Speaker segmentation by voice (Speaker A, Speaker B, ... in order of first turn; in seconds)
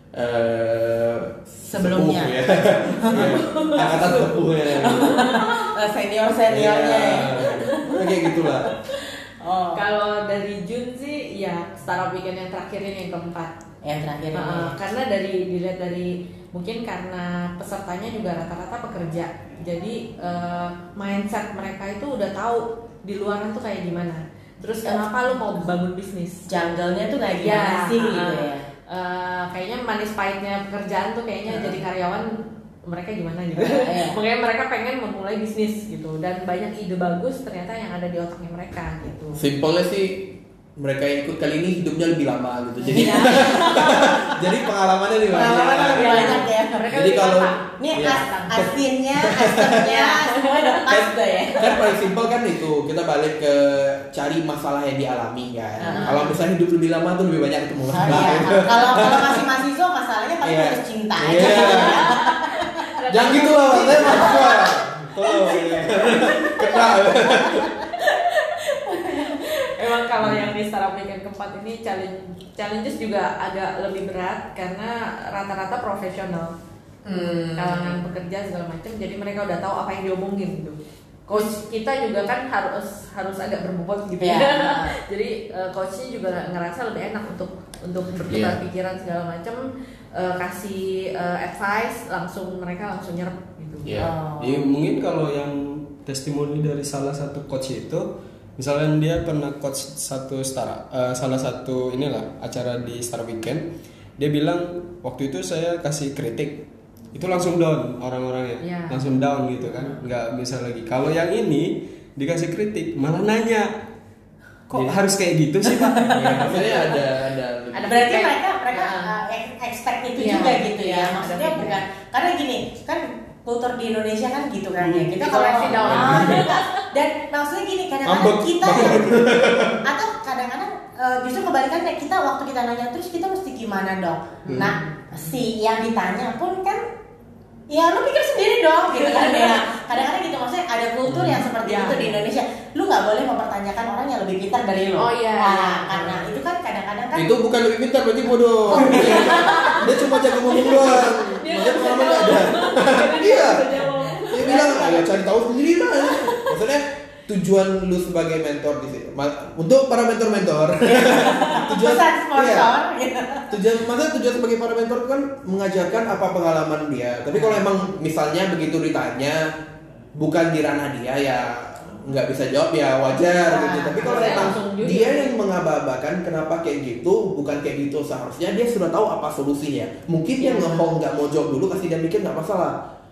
Speaker A: 0.1-5.3, 6.5-8.7, 39.3-50.0, 50.9-59.4, 60.4-62.2, 63.1-67.8, 70.2-70.5, 88.3-88.6, 93.8-94.1, 116.1-118.1, 125.7-126.5, 128.0-129.8, 141.1-141.4, 147.1-153.7, 154.2-162.7, 163.5-169.5, 170.1-182.8
Speaker B: 1.7-9.8, 13.8-14.8, 26.5-28.7, 31.5-31.8, 33.5-34.2, 42.8-44.3, 45.3-47.3, 47.8-52.0, 55.8-56.4, 57.9-67.9, 68.8-69.5, 77.0-78.0, 84.2-85.0, 94.0-94.7, 115.7-116.7, 117.8-136.8, 137.7-147.3, 148.7-149.8, 154.4-155.0, 160.9-163.6, 173.2-174.6, 180.4-180.9
Speaker C: 3.1-5.7, 9.7-13.5, 14.3-26.5, 27.4-39.4, 42.8-44.2, 45.9-48.7, 49.8-50.9, 55.8-56.3, 61.3-64.7, 65.4-66.9, 67.5-76.5, 77.5-93.9, 108.6-109.0, 116.5-117.0, 117.7-119.2, 120.2-121.8, 125.2-126.9, 134.5-135.1, 139.0-139.6, 141.6-142.2, 145.0-146.3, 148.8-149.9, 150.4-155.1, 156.0-156.5, 174.0-175.3, 180.5-180.8
Speaker D: 94.1-113.7, 114.7-116.7